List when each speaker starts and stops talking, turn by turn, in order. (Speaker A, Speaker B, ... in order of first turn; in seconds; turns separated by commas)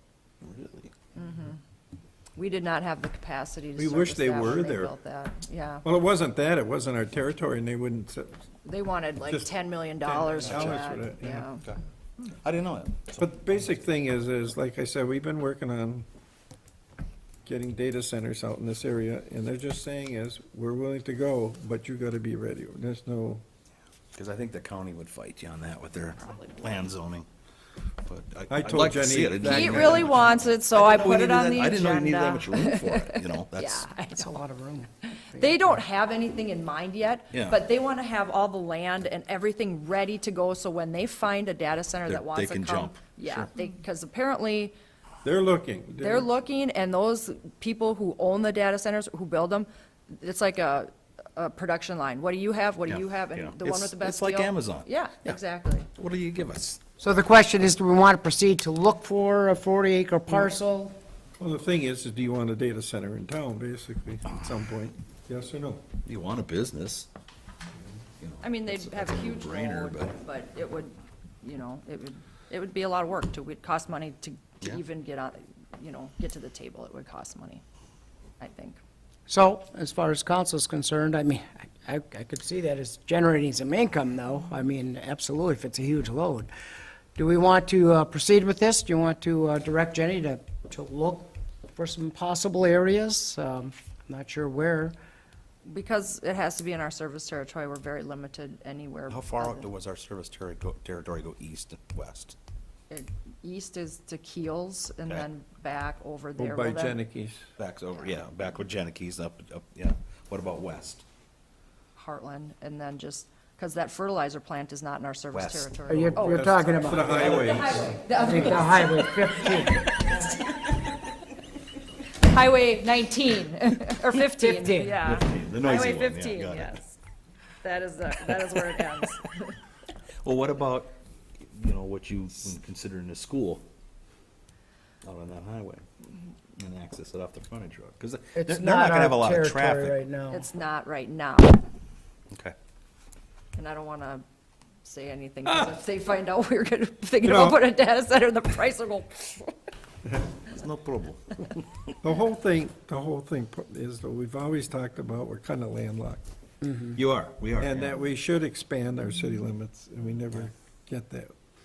Speaker A: 0.4-0.9, Speaker B: 1.2-1.6, Speaker B: 2.4-5.9, Speaker C: 3.8-4.9, Speaker C: 5.8-8.4, Speaker B: 8.6-11.6, Speaker C: 10.0-11.5, Speaker A: 10.4-10.9, Speaker A: 11.6-13.5, Speaker C: 13.2-16.1, Speaker C: 17.5-23.4, Speaker A: 24.1-27.3, Speaker A: 28.0-33.9, Speaker C: 28.5-30.3, Speaker B: 29.5-34.3, Speaker D: 34.1-35.4, Speaker B: 35.1-44.8, Speaker A: 37.3-37.6, Speaker A: 42.1-43.5, Speaker C: 45.2-46.3, Speaker B: 46.0-55.9, Speaker A: 52.9-55.4, Speaker A: 55.9-56.8, Speaker D: 57.0-61.0, Speaker C: 61.4-65.8, Speaker A: 66.0-67.1, Speaker A: 68.2-70.2, Speaker B: 68.4-77.6, Speaker B: 78.4-78.8, Speaker D: 79.3-86.5, Speaker D: 87.2-94.9, Speaker B: 95.7-99.7, Speaker A: 99.1-102.4, Speaker B: 102.9-107.0, Speaker C: 106.4-107.5, Speaker A: 107.6-111.0, Speaker B: 112.0-121.0, Speaker A: 115.3-116.0, Speaker D: 115.9-117.4, Speaker C: 116.2-118.0, Speaker A: 117.2-117.8, Speaker D: 118.0-120.0, Speaker B: 122.2-127.0, Speaker D: 124.3-125.0, Speaker A: 124.9-126.8, Speaker B: 127.6-129.6, Speaker A: 128.8-129.1, Speaker A: 130.2-130.9, Speaker A: 131.5-133.6, Speaker A: 135.0-135.9, Speaker A: 136.6-140.0, Speaker D: 138.3-140.5, Speaker B: 140.3-141.6, Speaker B: 143.6-144.2, Speaker B: 144.8-149.6, Speaker C: 147.2-147.6, Speaker C: 150.0-150.3, Speaker A: 150.5-151.9, Speaker C: 152.0-156.2, Speaker A: 156.9-157.9, Speaker C: 157.6-161.3